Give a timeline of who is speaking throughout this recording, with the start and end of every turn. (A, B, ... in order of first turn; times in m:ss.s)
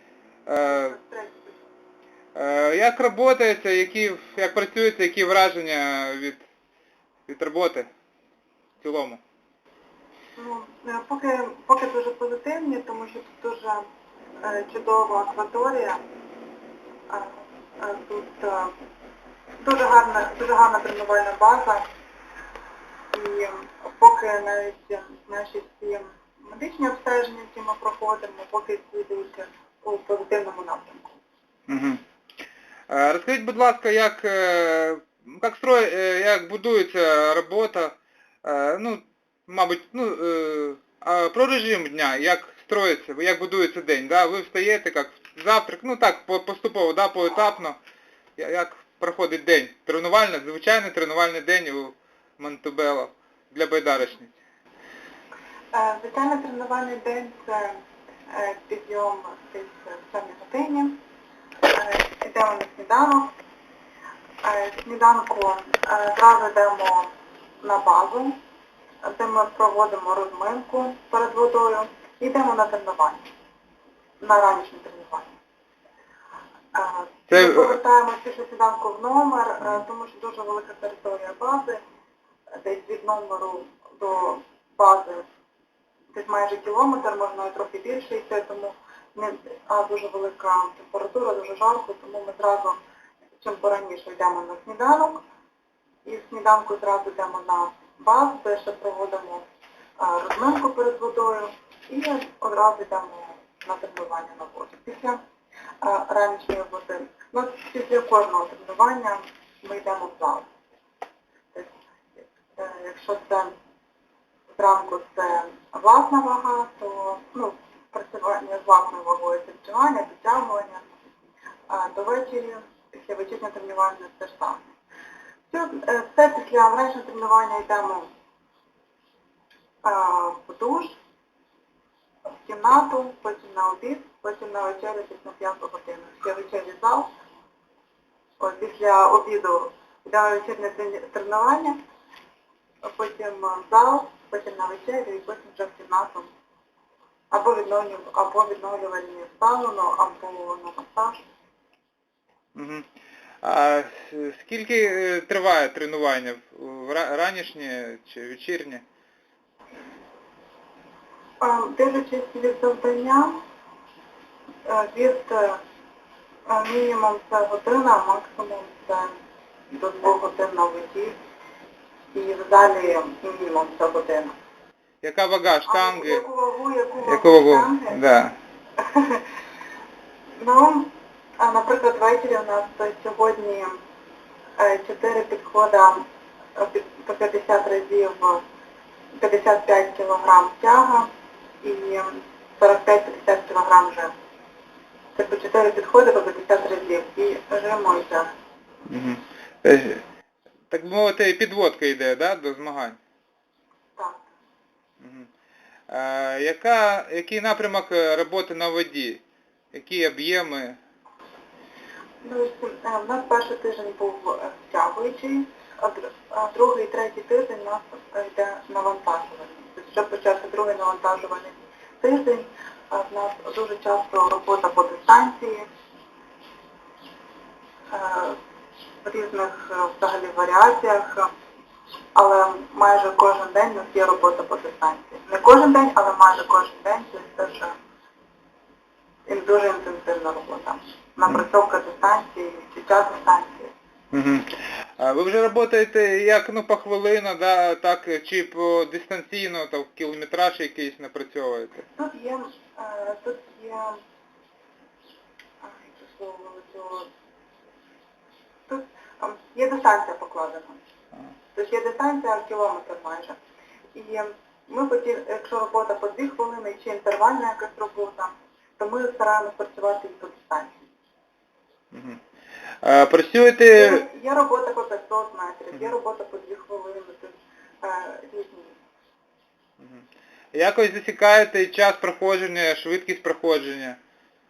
0:00.5-0:01.0 A
0:00.6-0:01.6 B
0:02.3-0:06.4 A
0:07.3-0:07.9 A
0:08.8-0:09.2 A
0:10.4-0:13.8 B
0:14.4-0:16.0 B
0:17.1-0:18.7 B
0:19.6-0:21.8 B
0:23.1-0:31.2 B
0:31.7-0:32.0 A
0:32.9-0:47.8 A
0:48.4-0:54.3 A
0:55.7-0:57.8 B
0:58.3-1:01.0 B
1:01.7-1:03.3 B
1:04.4-1:07.1 B
1:07.6-1:08.4 B
1:09.0-1:13.2 B
1:14.2-1:15.3 B
1:16.7-1:21.8 B
1:17.3-1:17.8 A
1:22.6-1:25.2 B
1:26.1-1:32.8 B
1:33.4-1:35.2 B
1:36.0-1:39.5 B
1:40.0-1:45.2 B
1:45.8-1:50.5 B
1:51.5-1:53.5 B
1:54.6-2:01.0 B
2:01.7-2:04.6 B
2:05.5-2:08.1 B
2:09.8-2:11.0 B
2:12.4-2:17.1 B
2:18.4-2:21.8 B
2:22.8-2:26.3 B
2:27.3-2:31.2 B
2:32.5-2:32.9 A
2:33.4-2:38.8 A
2:41.4-2:43.4 B
2:44.6-2:45.6 B
2:46.5-2:49.1 B
2:49.7-2:51.1 B
2:52.1-2:54.4 B
2:55.0-2:56.2 A
2:55.7-2:58.0 B
2:57.0-2:58.3 A
2:58.8-2:59.2 B
3:00.4-3:03.8 B
3:04.6-3:06.0 B
3:06.6-3:08.4 B
3:09.2-3:11.1 B
3:11.6-3:14.1 B
3:15.2-3:18.3 B
3:18.9-3:20.0 A
3:20.7-3:23.0 A
3:24.0-3:24.3 B
3:25.0-3:25.3 A
3:25.9-3:29.2 A
3:29.7-3:30.8 A
3:32.2-3:45.7 B
3:47.9-3:48.4 B
3:49.0-3:51.3 B
3:52.1-3:57.7 B
3:59.3-4:03.7 B
4:04.1-4:11.8 A
4:11.9-4:14.0 B
4:15.6-4:17.1 B
4:18.7-4:20.8 B
4:21.5-4:23.4 B
4:23.9-4:30.8 B
4:31.9-4:32.2 A
4:32.8-4:34.0 A
4:33.7-4:38.8 B
4:39.8-4:44.0 A